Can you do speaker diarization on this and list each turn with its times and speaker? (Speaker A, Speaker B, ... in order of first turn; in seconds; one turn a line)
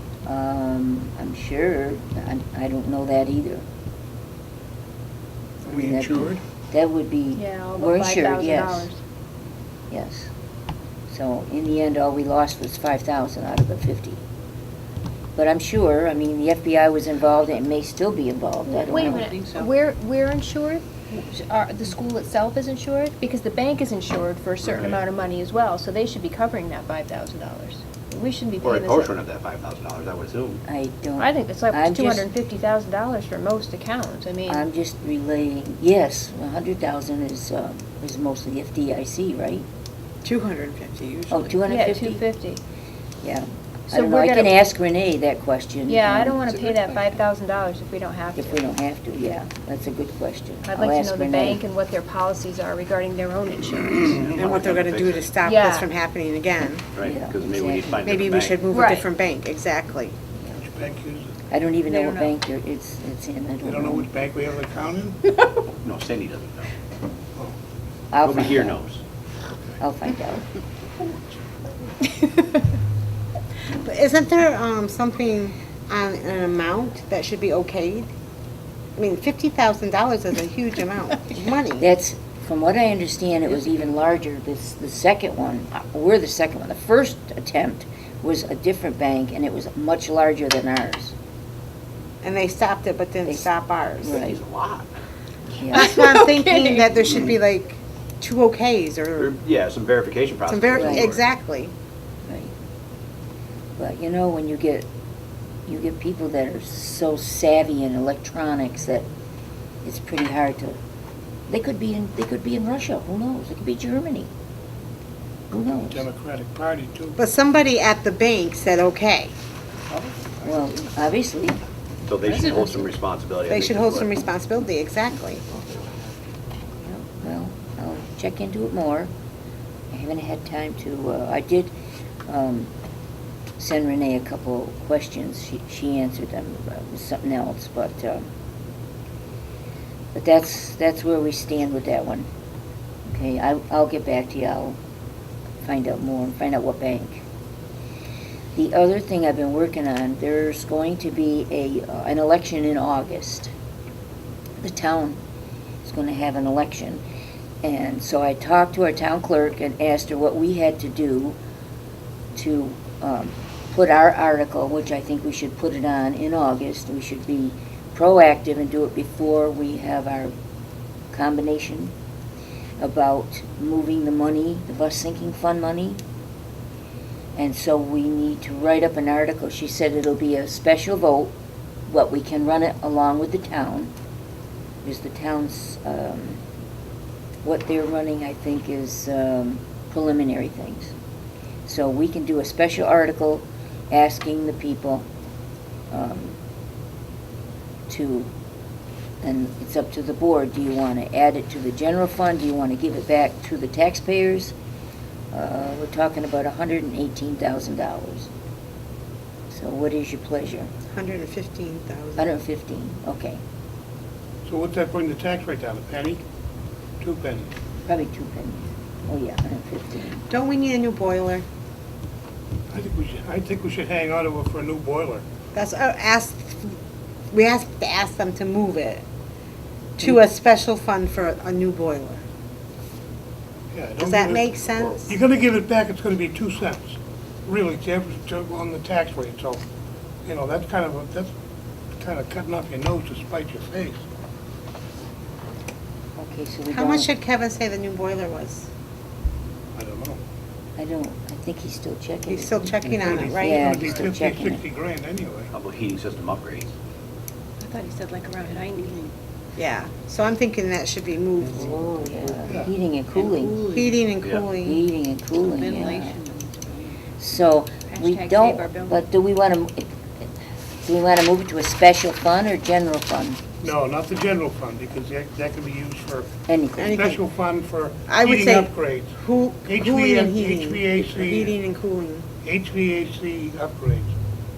Speaker A: 0.2-3.6
Speaker B: 5.6-6.4
Speaker A: 5.7-8.9
Speaker C: 7.3-9.0
Speaker A: 9.9-10.3
Speaker A: 11.1-14.2
Speaker A: 15.3-19.3
Speaker C: 18.7-29.1
Speaker D: 18.9-19.7
Speaker E: 24.6-25.0
Speaker E: 28.6-30.6
Speaker A: 30.7-32.3
Speaker C: 31.2-34.6
Speaker A: 34.5-39.6
Speaker F: 40.2-41.5
Speaker A: 41.3-42.2
Speaker C: 41.6-42.6
Speaker A: 43.2-46.5
Speaker C: 43.9-44.5
Speaker C: 45.9-48.6
Speaker A: 48.4-51.6
Speaker C: 50.6-54.1
Speaker E: 54.0-55.3
Speaker F: 54.2-56.9
Speaker C: 55.4-55.9
Speaker E: 56.9-58.6
Speaker A: 57.0-58.2
Speaker F: 58.0-60.1
Speaker C: 58.7-59.1
Speaker B: 60.5-61.3
Speaker A: 61.5-64.1
Speaker C: 61.9-62.3
Speaker B: 63.6-65.2
Speaker E: 65.7-66.7
Speaker A: 68.1-68.8
Speaker E: 68.2-69.0
Speaker A: 69.8-70.5
Speaker F: 73.7-78.1
Speaker F: 79.0-81.9
Speaker A: 81.8-91.1
Speaker F: 92.2-94.1
Speaker A: 93.2-94.4
Speaker E: 94.0-94.9
Speaker A: 95.5-96.0
Speaker F: 95.7-99.3
Speaker C: 95.9-96.2
Speaker E: 99.2-101.2
Speaker F: 100.5-101.7
Speaker A: 100.7-101.1
Speaker A: 102.2-102.5
Speaker A: 103.8-104.9
Speaker A: 105.7-109.0
Speaker A: 109.8-110.8
Speaker A: 111.5-114.3
Speaker A: 115.5-116.0
Speaker B: 115.7-117.2
Speaker F: 117.2-119.3
Speaker D: 119.9-120.3
Speaker A: 120.4-121.6
Speaker E: 122.0-124.1
Speaker D: 122.2-122.8
Speaker F: 123.5-125.4
Speaker A: 126.8-129.1
Speaker A: 129.9-131.7
Speaker A: 132.3-132.7
Speaker A: 133.6-138.2
Speaker A: 140.1-142.3
Speaker A: 143.1-144.8
Speaker A: 145.6-147.2
Speaker A: 148.5-153.5
Speaker A: 154.6-155.2
Speaker A: 155.8-157.0
Speaker A: 157.6-161.4
Speaker A: 162.3-170.3
Speaker A: 171.1-171.9
Speaker A: 172.8-176.0
Speaker A: 177.3-181.3
Speaker A: 181.9-183.9
Speaker A: 184.8-186.4
Speaker A: 187.4-190.9
Speaker A: 191.7-195.0
Speaker A: 195.9-196.4
Speaker A: 197.9-198.3
Speaker A: 199.2-204.5
Speaker A: 205.3-208.3
Speaker A: 209.5-210.7
Speaker F: 210.9-212.3
Speaker A: 212.2-213.4
Speaker B: 214.4-216.2
Speaker B: 217.0-217.5
Speaker A: 217.8-220.2
Speaker F: 220.3-221.4
Speaker B: 222.7-225.2
Speaker F: 225.5-226.7
Speaker F: 227.3-229.0
Speaker F: 230.0-232.2
Speaker B: 233.7-239.6
Speaker F: 234.0-235.2
Speaker B: 240.2-241.3
Speaker B: 242.0-244.0
Speaker A: 246.2-247.1
Speaker F: 246.7-248.7
Speaker B: 249.7-250.2
Speaker A: 250.8-254.6
Speaker F: 252.3-253.9
Speaker B: 253.0-255.5
Speaker E: 255.5-256.7
Speaker D: 257.6-259.1
Speaker F: 259.6-261.9
Speaker A: 261.8-263.6
Speaker D: 262.0-264.0
Speaker F: 263.7-264.8
Speaker A: 264.6-266.2
Speaker D: 265.4-267.0
Speaker A: 267.2-269.9
Speaker C: 267.9-269.0
Speaker A: 270.8-273.7
Speaker B: 273.6-281.6
Speaker A: 276.5-277.0
Speaker F: 276.8-277.2
Speaker F: 278.1-282.3
Speaker B: 282.4-284.1